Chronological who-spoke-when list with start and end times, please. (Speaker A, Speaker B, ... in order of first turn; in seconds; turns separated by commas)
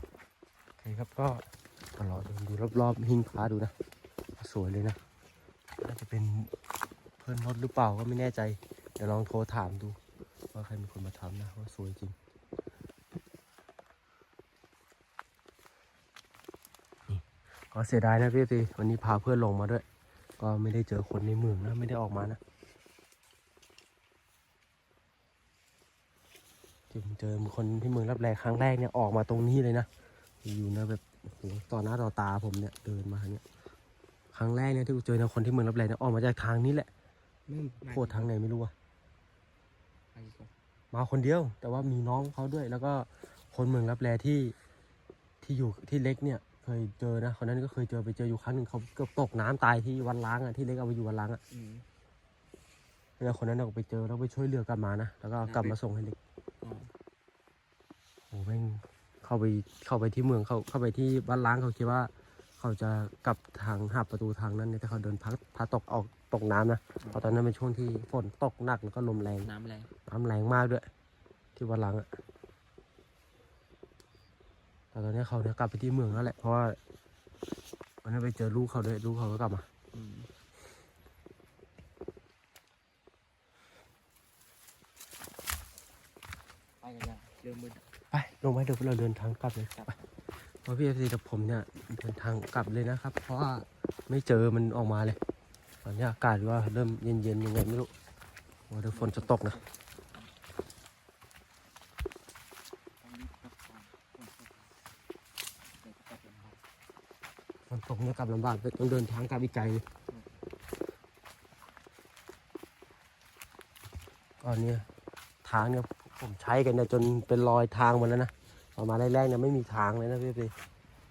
Speaker A: 0.8-3.7, Speaker A: 4.4-5.0, Speaker A: 5.8-6.5, Speaker A: 7.2-10.0, Speaker A: 10.5-12.2, Speaker A: 17.1-19.8, Speaker A: 20.4-22.4, Speaker A: 26.9-29.9, Speaker A: 30.4-33.4, Speaker A: 34.3-36.9, Speaker A: 37.5-38.7, Speaker B: 37.8-38.3, Speaker B: 40.1-40.5, Speaker A: 40.9-44.5, Speaker A: 45.4-51.4, Speaker B: 51.5-51.9, Speaker A: 53.2-56.2, Speaker B: 55.4-55.8, Speaker B: 56.6-56.9, Speaker A: 58.3-69.5, Speaker B: 69.4-69.9, Speaker A: 70.1-70.9, Speaker A: 71.5-72.1, Speaker A: 74.9-76.8, Speaker A: 78.0-79.7, Speaker B: 79.9-80.3, Speaker B: 86.8-87.8, Speaker A: 88.1-90.0, Speaker A: 90.6-95.2, Speaker A: 95.8-97.9, Speaker A: 98.7-99.6, Speaker B: 98.9-100.3, Speaker B: 103.0-104.7, Speaker B: 105.6-106.6, Speaker A: 107.7-109.8, Speaker A: 114.4-114.9, Speaker A: 115.4-120.5